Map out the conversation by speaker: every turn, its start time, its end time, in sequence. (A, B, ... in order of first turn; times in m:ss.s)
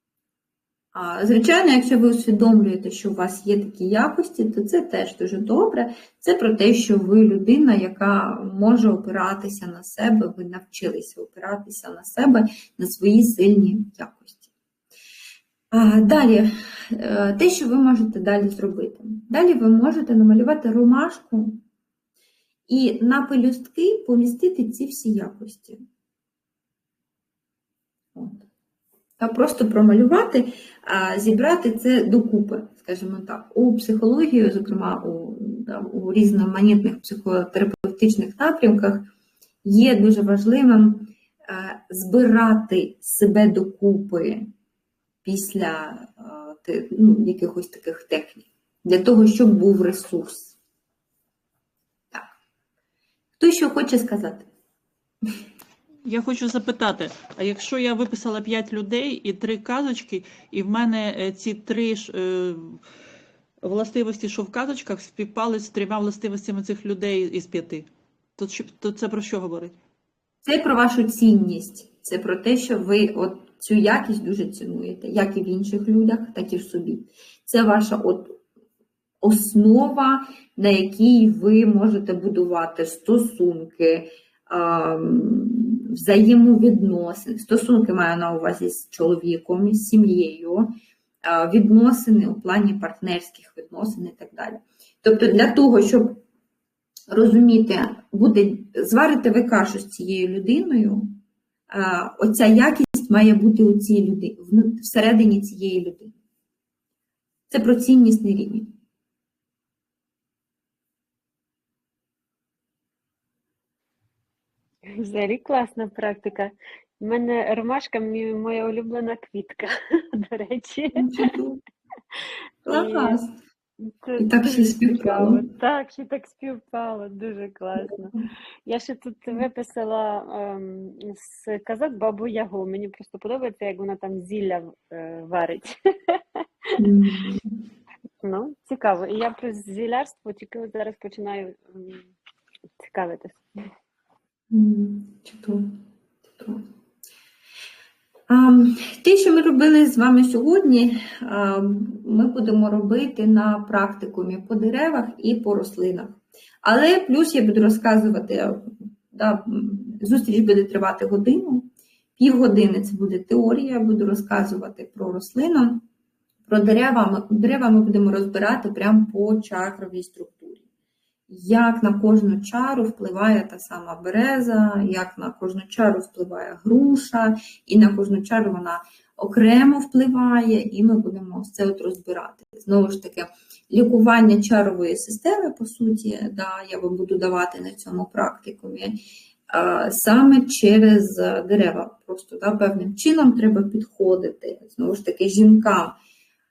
0:00.9-0:14.5 A
0:15.7-0:21.6 A
0:22.7-0:25.8 A
0:28.1-0:28.4 A
0:29.2-0:39.1 A
0:39.6-0:44.5 A
0:45.2-0:50.6 A
0:53.4-0:54.5 A
0:56.0-1:02.8 B
1:03.6-1:09.8 B
1:10.4-1:18.4 A
1:19.2-1:30.7 A
1:31.2-1:36.2 A
1:37.1-1:41.2 A
1:41.7-1:46.2 A
1:47.5-1:48.7 A
1:54.9-2:01.3 C
2:01.0-2:01.6 A
2:02.1-2:03.2 C
2:02.6-2:03.4 A
2:03.8-2:16.8 C
2:04.2-2:05.4 A
2:16.8-2:17.5 A
2:18.2-2:22.1 C
2:22.8-2:23.4 C
2:24.5-2:25.7 A
2:26.4-2:26.6 A
2:28.3-2:45.8 A
2:46.5-2:50.6 A
2:51.3-3:09.0 A
3:09.5-3:16.0 A